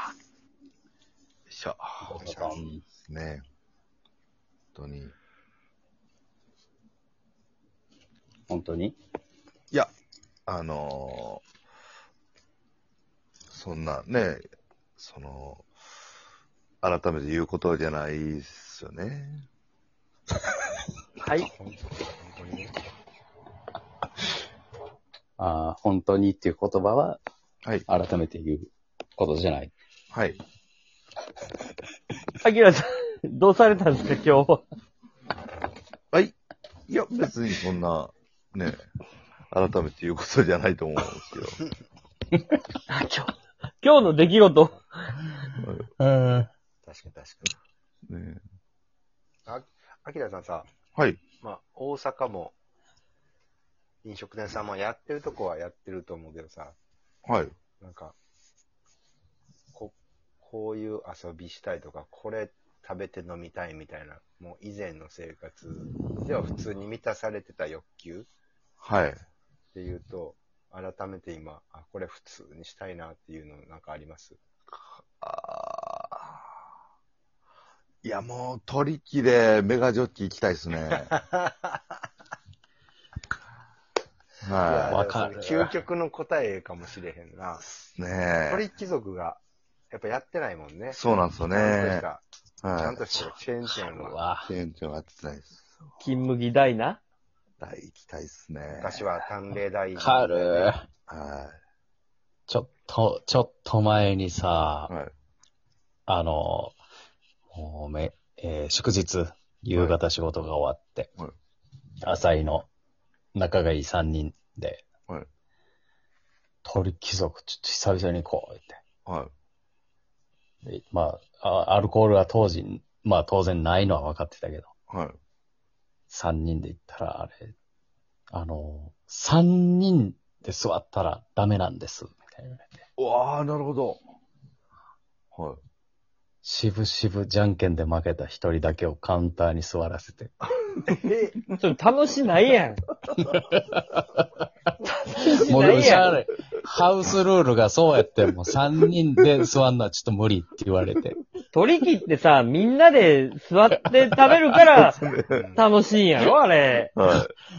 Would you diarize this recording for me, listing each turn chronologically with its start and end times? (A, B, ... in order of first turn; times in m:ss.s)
0:01.5-0:02.3 A
0:02.1-0:02.8 B
0:02.1-0:02.6 C
0:02.9-0:03.4 A
0:04.7-0:05.1 A
0:08.5-0:09.0 B
0:10.5-0:11.4 A
0:13.5-0:14.4 A
0:15.0-0:15.7 A
0:16.8-0:19.4 A
0:21.5-0:22.8 C
0:25.4-0:27.2 B
0:27.9-0:29.7 B
0:30.1-0:30.4 A
0:32.4-0:34.6 D
0:36.9-0:38.8 A
0:39.5-0:41.6 A
0:42.9-0:44.8 D
0:45.6-0:45.9 A
0:46.0-0:46.5 B
0:46.8-0:47.5 C
0:48.1-0:48.4 A
0:49.4-0:50.7 C
0:50.9-0:51.2 A
0:51.4-0:52.6 C
0:54.0-0:56.7 C
0:57.2-0:57.5 A
0:57.8-0:58.2 C
0:59.7-1:08.3 C
1:08.8-1:09.2 A
1:09.7-1:14.4 C
1:15.2-1:16.5 A
1:18.0-1:21.1 A
1:20.9-1:21.8 C
1:24.4-1:25.0 A
1:24.6-1:27.6 C
1:24.9-1:25.8 B
1:28.0-1:28.6 A
1:28.5-1:31.0 C
1:30.9-1:32.0 A
1:31.5-1:32.2 C
1:32.6-1:33.0 A
1:32.7-1:34.2 C
1:33.1-1:34.5 B
1:34.4-1:35.6 A
1:36.0-1:37.0 D
1:37.6-1:39.0 A
1:38.8-1:40.7 C
1:40.0-1:40.8 B
1:41.1-1:41.5 A
1:42.5-1:44.9 B
1:46.1-1:46.8 B
1:47.5-1:51.1 B
1:52.0-1:52.7 B
1:53.3-1:54.9 B
1:56.6-1:58.8 B
1:59.0-1:59.3 A
2:00.6-2:04.7 B
2:04.9-2:05.2 A
2:06.1-2:07.5 B
2:08.3-2:12.8 B
2:13.0-2:14.0 A
2:15.3-2:15.6 A
2:16.4-2:20.3 B
2:20.9-2:21.4 C
2:21.6-2:22.8 D
2:23.2-2:24.2 B
2:24.8-2:26.1 D
2:25.2-2:31.2 B
2:31.5-2:35.0 D
2:33.8-2:34.6 B
2:35.0-2:35.5 A
2:35.3-2:35.6 C
2:35.6-2:36.9 D
2:37.0-2:37.5 A